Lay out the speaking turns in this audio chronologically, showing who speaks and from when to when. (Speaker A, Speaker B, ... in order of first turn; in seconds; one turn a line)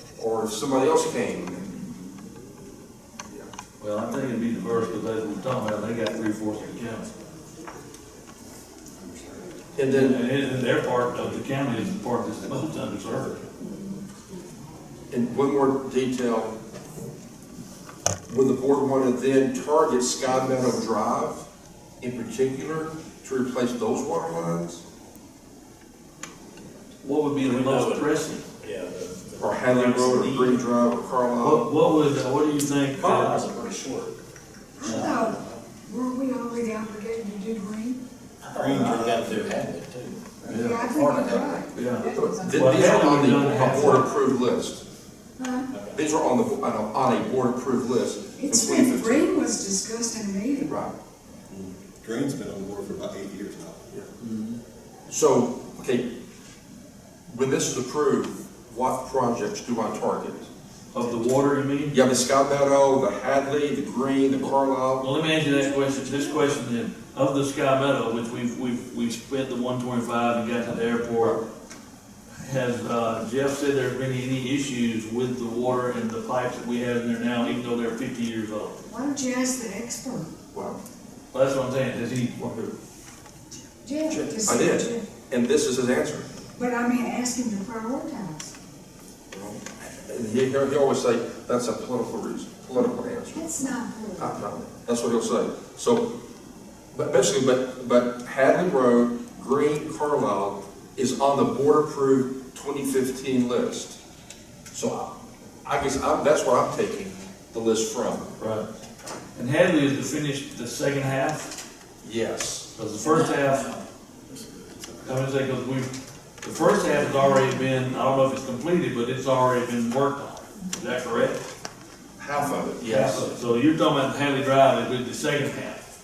Speaker A: 0.1-2.0
Speaker B: 3.8-7.1
Speaker A: 9.7-10.2
Speaker B: 9.9-13.4
Speaker A: 15.1-16.5
Speaker A: 18.2-21.4
Speaker A: 22.0-24.8
Speaker B: 27.0-28.4
Speaker C: 27.4-29.9
Speaker A: 29.4-31.7
Speaker B: 29.7-30.6
Speaker B: 31.4-33.4
Speaker C: 33.0-34.1
Speaker D: 34.8-38.0
Speaker C: 34.8-35.6
Speaker B: 34.8-35.1
Speaker C: 38.4-40.2
Speaker E: 38.5-39.6
Speaker E: 40.4-41.6
Speaker B: 40.5-40.9
Speaker D: 40.5-42.9
Speaker B: 41.7-44.1
Speaker A: 42.1-44.8
Speaker D: 45.4-45.7
Speaker C: 45.7-46.0
Speaker A: 45.9-49.4
Speaker D: 48.4-50.8
Speaker A: 50.6-50.9
Speaker E: 51.5-53.8
Speaker B: 54.2-54.5
Speaker A: 55.1-56.1
Speaker A: 57.3-60.5
Speaker B: 60.9-62.0
Speaker A: 61.9-65.0
Speaker B: 65.0-71.4
Speaker B: 72.4-78.8
Speaker D: 78.9-80.3
Speaker A: 80.5-80.8
Speaker B: 81.3-82.7
Speaker D: 83.8-85.1
Speaker A: 84.1-86.3
Speaker D: 86.5-88.5
Speaker A: 89.3-93.5
Speaker D: 93.3-94.3
Speaker A: 94.2-96.1
Speaker A: 96.9-104.0
Speaker A: 104.7-108.3
Speaker B: 108.4-108.7
Speaker B: 109.3-111.5
Speaker A: 112.0-112.7
Speaker B: 112.8-113.7
Speaker C: 113.0-115.2
Speaker B: 115.0-115.9
Speaker B: 116.4-121.4
Speaker A: 122.2-123.3
Speaker B: 122.8-125.8